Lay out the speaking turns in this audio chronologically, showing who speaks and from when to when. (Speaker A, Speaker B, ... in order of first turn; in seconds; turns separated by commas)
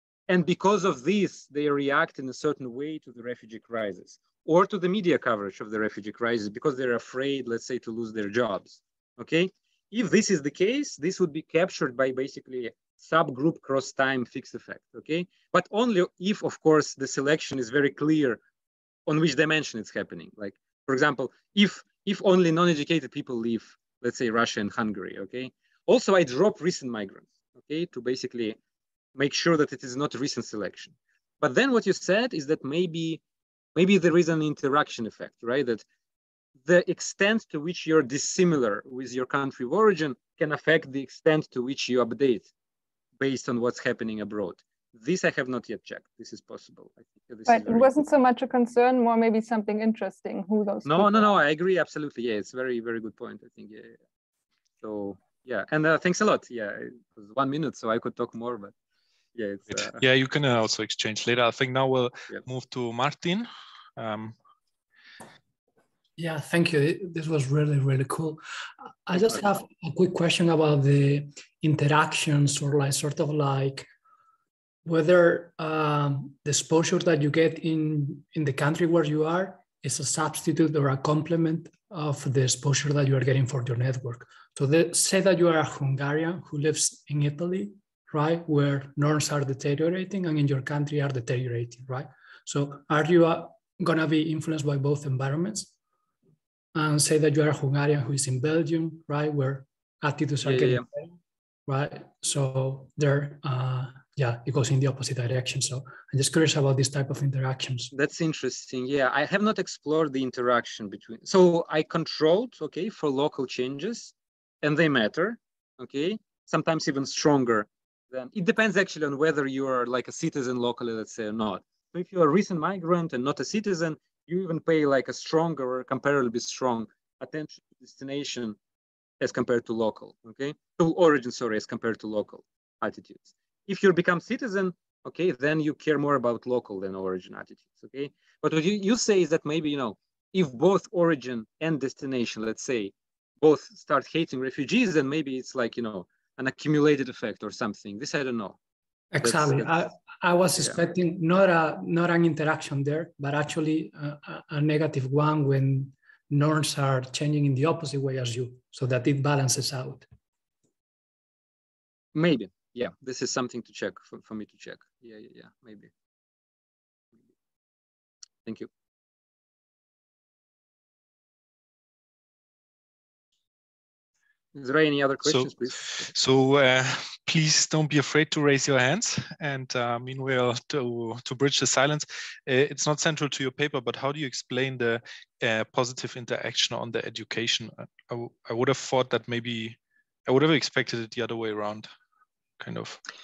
Speaker A: 0.3-18.4, Speaker A: 19.1-28.6, Speaker A: 29.1-33.2, Speaker A: 33.7-35.8, Speaker A: 36.7-42.5, Speaker A: 43.2-47.9, Speaker B: 47.5-51.3, Speaker A: 50.8-54.0, Speaker A: 54.8-58.7, Speaker A: 59.3-60.0, Speaker C: 60.0-64.3, Speaker D: 66.2-68.4, Speaker D: 69.0-73.9, Speaker D: 74.8-95.7, Speaker D: 96.7-101.0, Speaker A: 100.4-100.8, Speaker D: 101.7-107.9, Speaker A: 107.9-128.6, Speaker A: 129.2-148.6, Speaker D: 149.1-160.1, Speaker A: 149.2-149.8, Speaker A: 162.1-165.9, Speaker A: 174.6-176.1, Speaker C: 175.3-191.9, Speaker C: 192.6-193.0